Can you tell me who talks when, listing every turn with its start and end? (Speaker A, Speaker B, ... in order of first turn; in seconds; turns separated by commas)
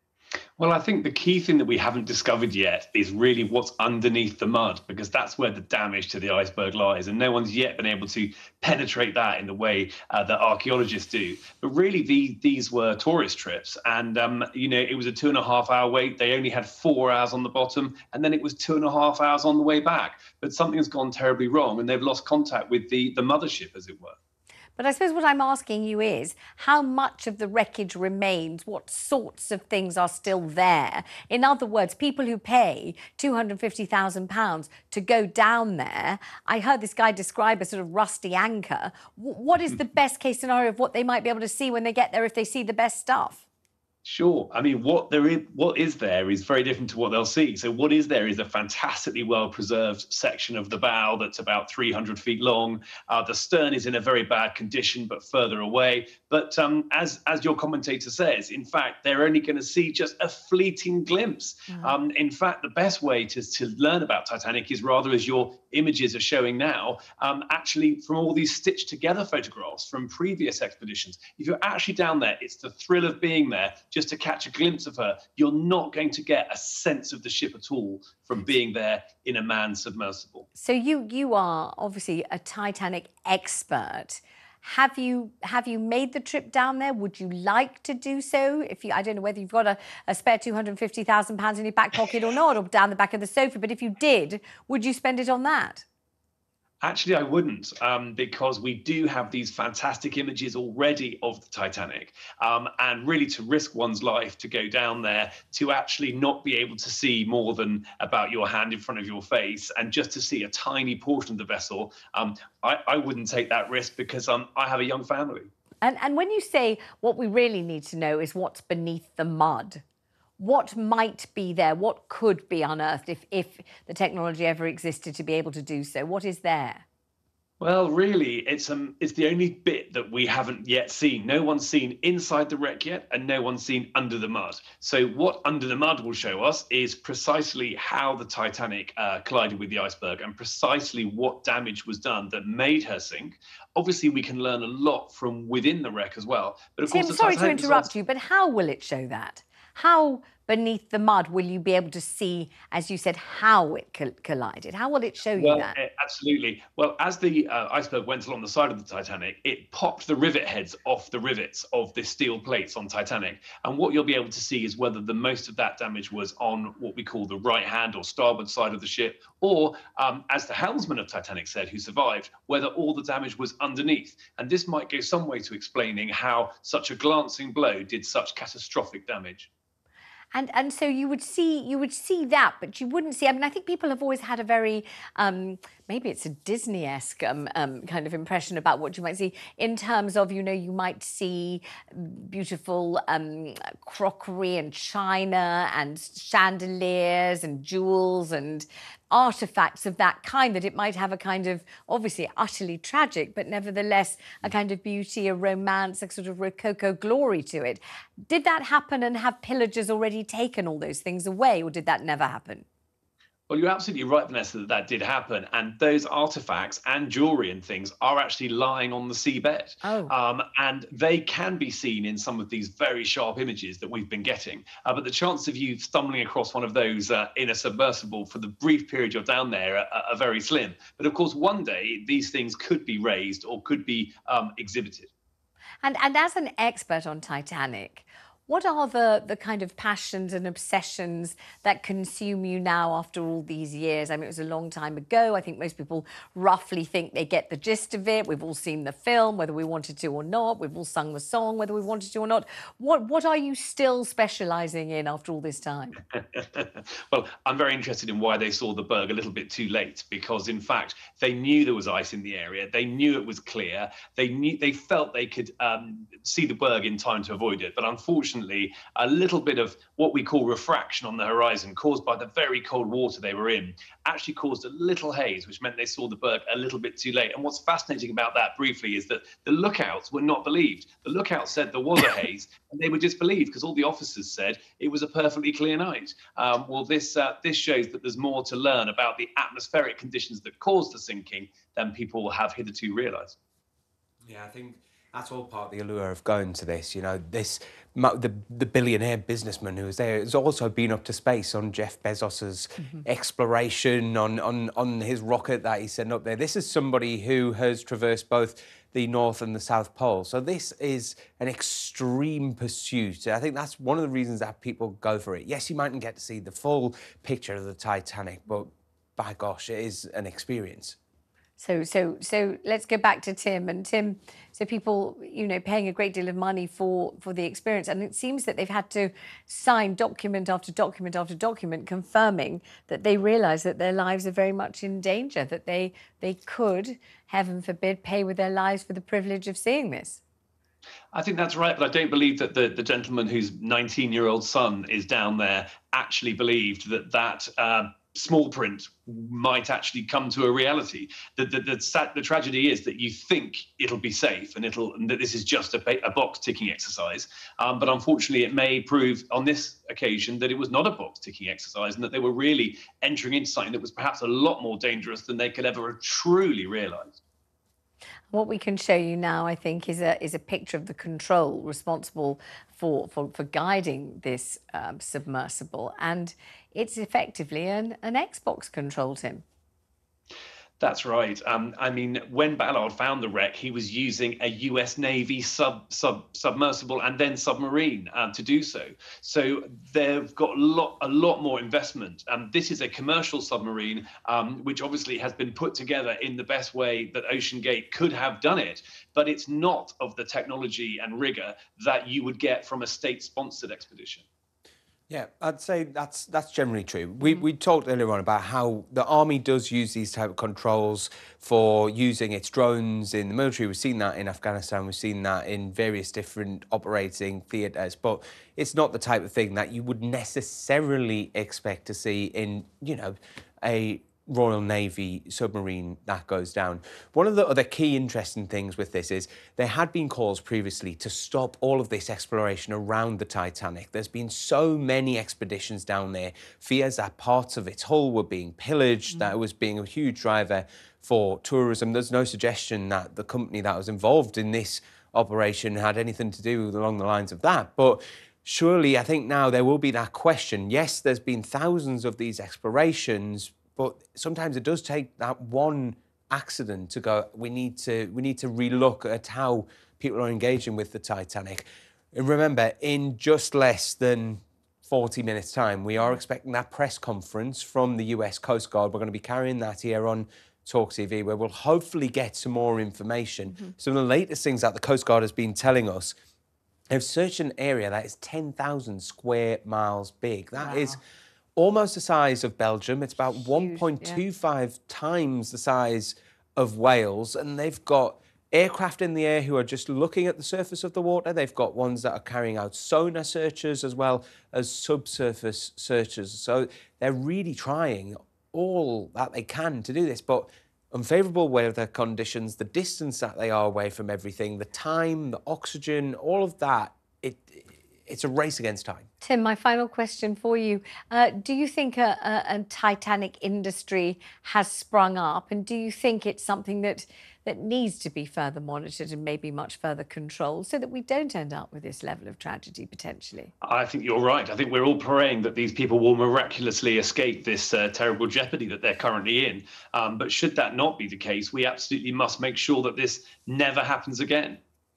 Speaker A: 0.6-24.2, Speaker B: 24.8-43.4, Speaker A: 44.0-80.5, Speaker B: 80.6-95.8, Speaker A: 96.8-115.5, Speaker B: 115.8-119.8, Speaker B: 120.4-126.8, Speaker A: 127.6-147.9, Speaker B: 146.9-155.8, Speaker A: 155.3-179.5, Speaker B: 180.3-212.7, Speaker A: 213.5-235.1, Speaker B: 219.8-220.1, Speaker B: 235.8-256.0, Speaker A: 256.4-293.4, Speaker C: 294.2-321.0, Speaker B: 321.6-340.2, Speaker A: 341.1-367.2, Speaker B: 368.3-379.4, Speaker A: 380.8-404.2, Speaker C: 405.1-476.1, Speaker C: 476.9-481.0, Speaker B: 480.6-481.0, Speaker C: 481.6-509.1, Speaker B: 483.5-484.2, Speaker B: 509.2-523.5, Speaker A: 523.6-534.6